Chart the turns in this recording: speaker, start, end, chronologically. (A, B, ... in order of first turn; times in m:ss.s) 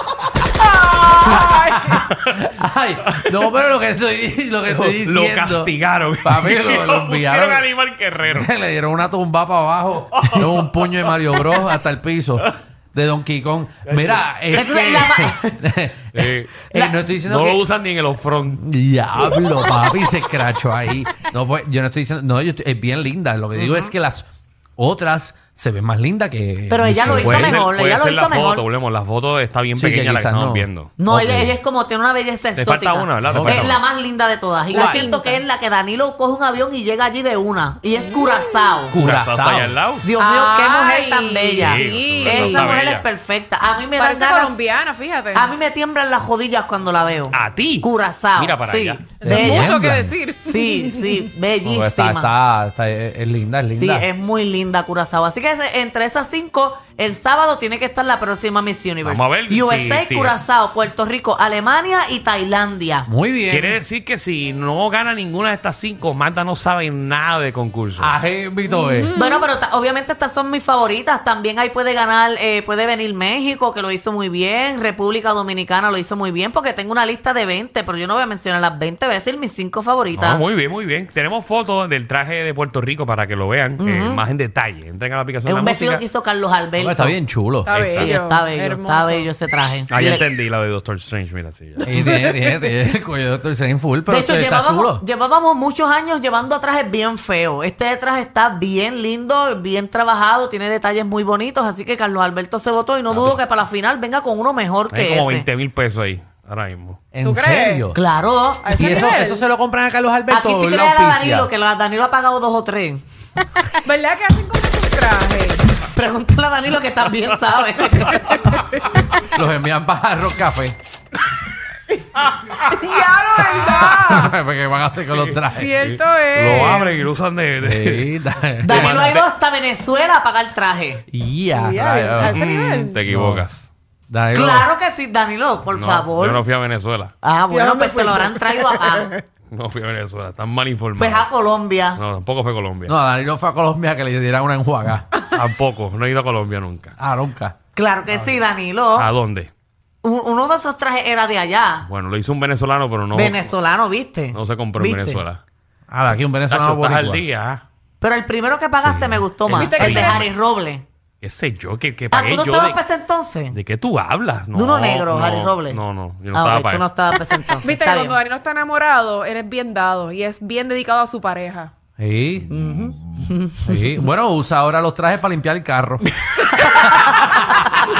0:00.6-0:02.0 A
0:01.3-0:07.7 B
0:04.6-0:08.5 C
0:08.3-0:17.6 B
0:10.1-0:11.4 C
0:13.8-0:15.0 C
0:14.5-0:15.6 D
0:16.1-0:16.6 C
0:17.2-0:18.6 C
0:18.6-0:24.2 B
0:23.5-0:23.9 D
0:24.8-0:27.6 B
0:26.7-0:28.6 D
0:26.9-0:31.4 C
0:29.8-0:31.6 B
0:31.0-0:39.0 D
0:32.6-0:33.8 C
0:33.3-0:33.8 B
0:34.7-0:35.4 A
0:34.7-0:35.1 B
0:38.1-0:38.4 A
0:38.9-0:39.8 B
0:38.9-0:40.1 C
0:40.0-0:44.6 D
0:40.2-0:42.7 A
0:41.6-0:43.0 C
0:44.0-0:45.5 A
0:45.3-0:49.8 D
0:47.3-0:49.1 C
0:49.2-0:51.3 A
0:49.2-0:50.1 B
0:50.5-0:52.3 D
0:51.6-0:54.1 B
0:53.7-1:03.1 D
0:59.0-1:00.4 C
1:03.1-1:03.8 B
1:03.5-1:08.1 C
1:08.0-1:09.1 B
1:08.6-1:09.5 A
1:09.2-1:20.4 D
1:20.1-1:26.0 C
1:23.8-1:24.2 D
1:25.4-1:27.2 D
1:26.8-1:27.8 B
1:27.6-1:29.3 A
1:27.7-1:28.1 C
1:28.0-1:30.2 D
1:29.9-1:31.9 C
1:31.8-1:35.0 B
1:31.9-1:32.5 A
1:34.1-1:45.4 D
1:43.1-1:43.4 C
1:44.9-1:47.0 C
1:47.1-1:48.0 B
1:47.2-1:47.8 A
1:47.9-1:49.1 D
1:48.6-1:49.4 A
1:48.7-1:51.5 B
1:50.3-1:53.0 D
1:53.8-1:55.7 A
1:55.8-1:58.5 D
1:58.1-1:58.8 A
1:59.2-2:00.8 B
2:02.6-2:04.3 A
2:03.6-2:06.0 B
2:05.5-2:06.9 A
2:06.3-2:08.1 C
2:07.6-2:09.1 B
2:08.6-2:11.0 D
2:08.7-2:09.3 C
2:11.1-2:12.4 B
2:11.5-2:13.0 A
2:12.2-2:13.7 C
2:13.1-2:13.4 B
2:14.1-2:14.7 B
2:14.3-2:16.4 D
2:15.7-2:17.1 C
2:17.2-2:19.1 D
2:17.5-2:19.2 A
2:19.5-2:21.3 C
2:21.0-2:22.0 D
2:21.9-2:22.9 C
2:22.9-2:25.1 B
2:25.3-2:26.9 C
2:27.0-2:27.5 B
2:27.7-2:29.1 D
2:28.1-2:28.4 C
2:29.0-2:29.5 C
2:30.0-2:31.9 D
2:31.8-2:33.5 C
2:33.1-2:35.2 D
2:34.3-2:35.4 C
2:35.9-2:37.2 B
2:36.5-2:37.6 C
2:38.0-2:40.8 D
2:38.8-2:39.2 B
2:39.5-2:40.2 A
2:39.6-2:40.3 C
2:41.2-2:42.8 C
2:42.1-2:43.6 D
2:43.5-2:46.9 C
2:44.5-2:45.8 D
2:46.3-2:48.2 D
2:47.6-2:51.7 A
2:52.0-2:52.5 B
2:52.5-2:54.0 D
2:53.6-2:56.1 B
2:56.8-2:57.5 B